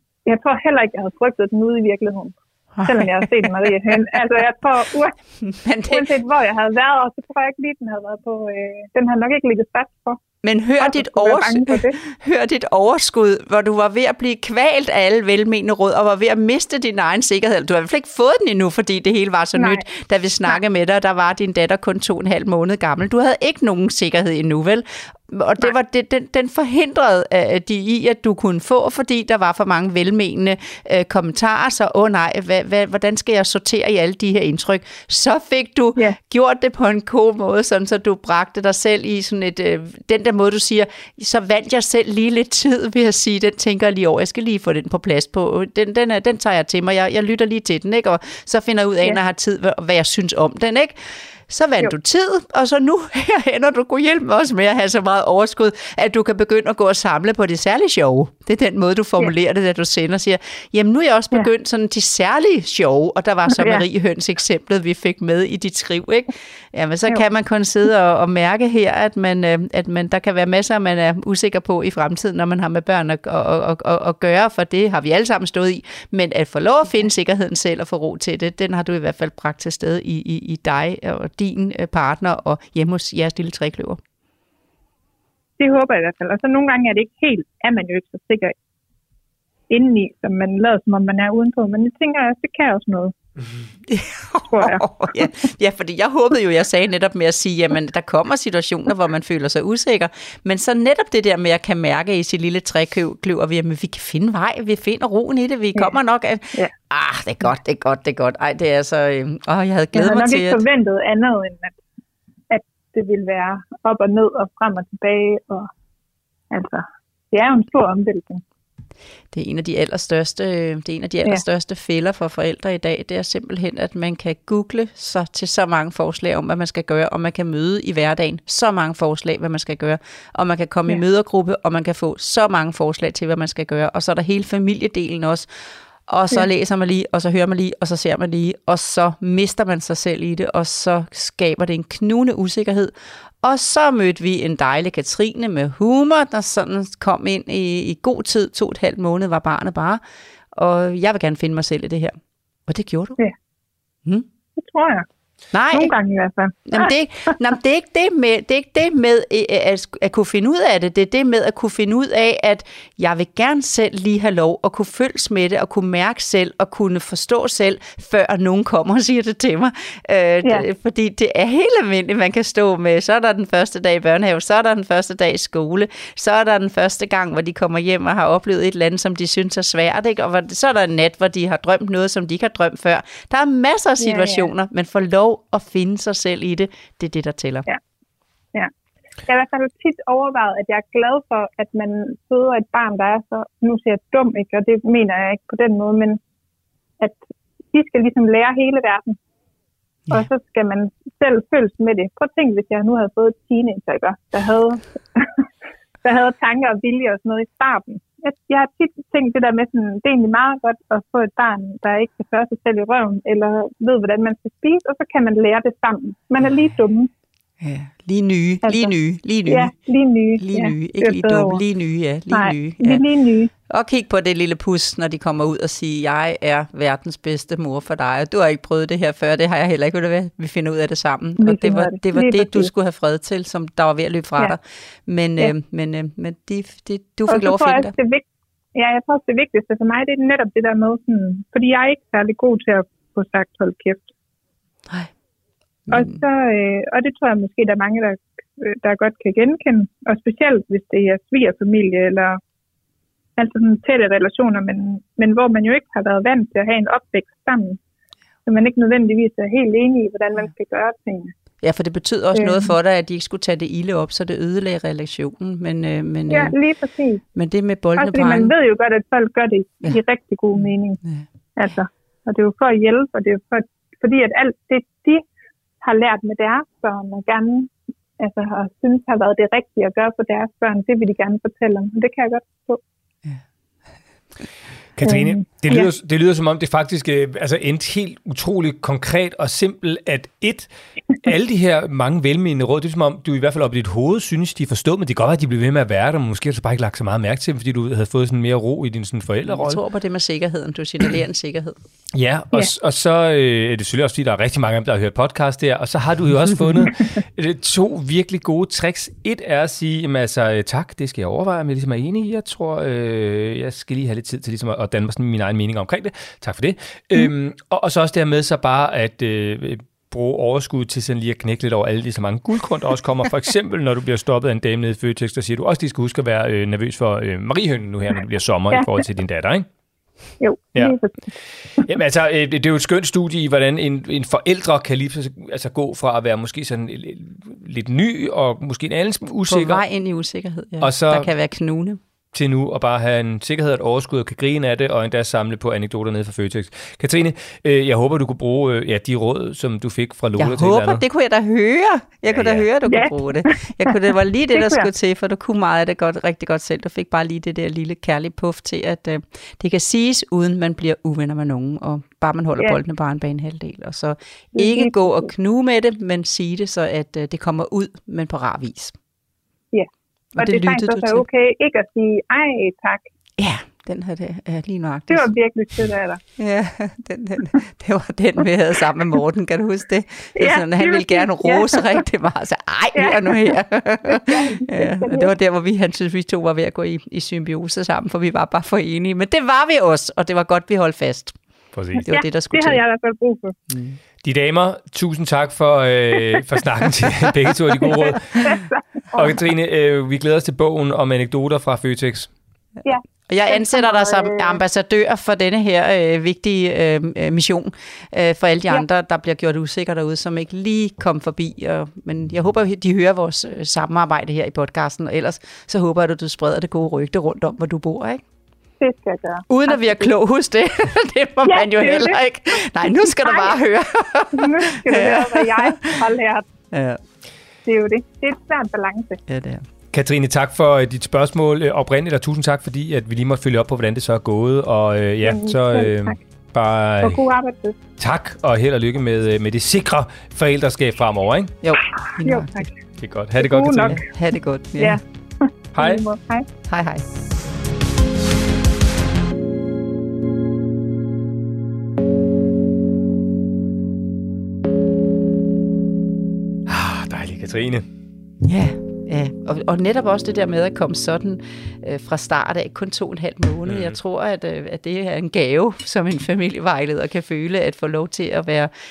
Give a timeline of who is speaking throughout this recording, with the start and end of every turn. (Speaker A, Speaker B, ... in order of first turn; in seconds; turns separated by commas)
Speaker A: 0.3-5.2, Speaker B: 2.8-4.0, Speaker B: 5.4-6.1, Speaker A: 5.9-10.2, Speaker B: 10.4-84.0, Speaker A: 10.8-12.0, Speaker A: 19.6-19.8, Speaker A: 63.6-63.8, Speaker A: 85.6-88.5, Speaker A: 89.7-93.1, Speaker B: 93.9-110.6, Speaker A: 94.5-95.3, Speaker A: 110.0-111.8, Speaker A: 112.5-115.7, Speaker A: 116.5-118.4, Speaker B: 119.3-135.5, Speaker B: 136.1-150.0, Speaker B: 150.5-152.2, Speaker B: 152.7-153.2, Speaker A: 154.6-155.1, Speaker B: 155.5-155.9, Speaker A: 155.7-157.3, Speaker B: 156.7-187.7, Speaker A: 184.0-184.5, Speaker A: 189.3-196.2, Speaker A: 197.7-199.2, Speaker A: 200.1-205.5, Speaker A: 206.0-217.1, Speaker B: 217.6-219.7, Speaker A: 218.6-218.9, Speaker A: 219.5-221.6, Speaker B: 220.4-223.1, Speaker A: 222.3-223.5, Speaker B: 223.7-237.9, Speaker A: 231.4-232.7, Speaker A: 237.3-244.1, Speaker B: 245.9-246.2, Speaker A: 245.9-252.4, Speaker A: 253.4-257.8, Speaker A: 258.5-261.3, Speaker B: 261.6-266.6, Speaker A: 262.4-262.7, Speaker A: 266.3-267.2, Speaker B: 267.4-268.5, Speaker A: 268.0-271.0, Speaker B: 270.6-271.2, Speaker A: 271.6-275.2, Speaker A: 275.8-282.8, Speaker C: 285.0-299.8, Speaker A: 285.1-285.9, Speaker B: 299.5-301.8, Speaker C: 302.1-329.7, Speaker A: 330.4-331.2, Speaker C: 331.8-339.8, Speaker B: 339.5-342.0, Speaker C: 340.8-341.3, Speaker C: 342.3-351.0, Speaker B: 350.4-369.0, Speaker C: 352.3-352.7, Speaker A: 352.9-354.0, Speaker A: 354.5-354.9, Speaker A: 364.6-365.3, Speaker A: 369.7-373.1, Speaker B: 370.4-371.2, Speaker B: 373.4-375.3, Speaker A: 375.1-376.2, Speaker B: 376.4-391.4, Speaker A: 380.4-382.0, Speaker A: 382.9-383.6, Speaker A: 384.1-385.3, Speaker C: 391.7-392.1, Speaker A: 391.9-393.6, Speaker B: 392.0-392.8, Speaker B: 393.7-394.0, Speaker C: 394.2-398.6, Speaker A: 397.8-399.4, Speaker C: 399.1-402.3, Speaker A: 402.9-404.6, Speaker B: 403.3-418.2, Speaker A: 418.8-420.1, Speaker B: 419.5-426.0, Speaker A: 421.5-423.6, Speaker A: 424.3-426.5, Speaker B: 426.7-427.0, Speaker A: 427.6-429.2, Speaker B: 429.3-429.6, Speaker C: 429.9-437.2, Speaker A: 435.2-436.2, Speaker A: 437.0-437.8, Speaker C: 438.0-441.5, Speaker B: 441.6-442.7, Speaker A: 442.1-442.7, Speaker C: 443.0-444.0, Speaker A: 443.4-444.1, Speaker B: 443.9-445.0, Speaker A: 444.8-446.5, Speaker C: 445.8-446.0, Speaker B: 446.7-447.1, Speaker C: 456.7-457.9, Speaker B: 458.4-468.7, Speaker C: 463.7-463.9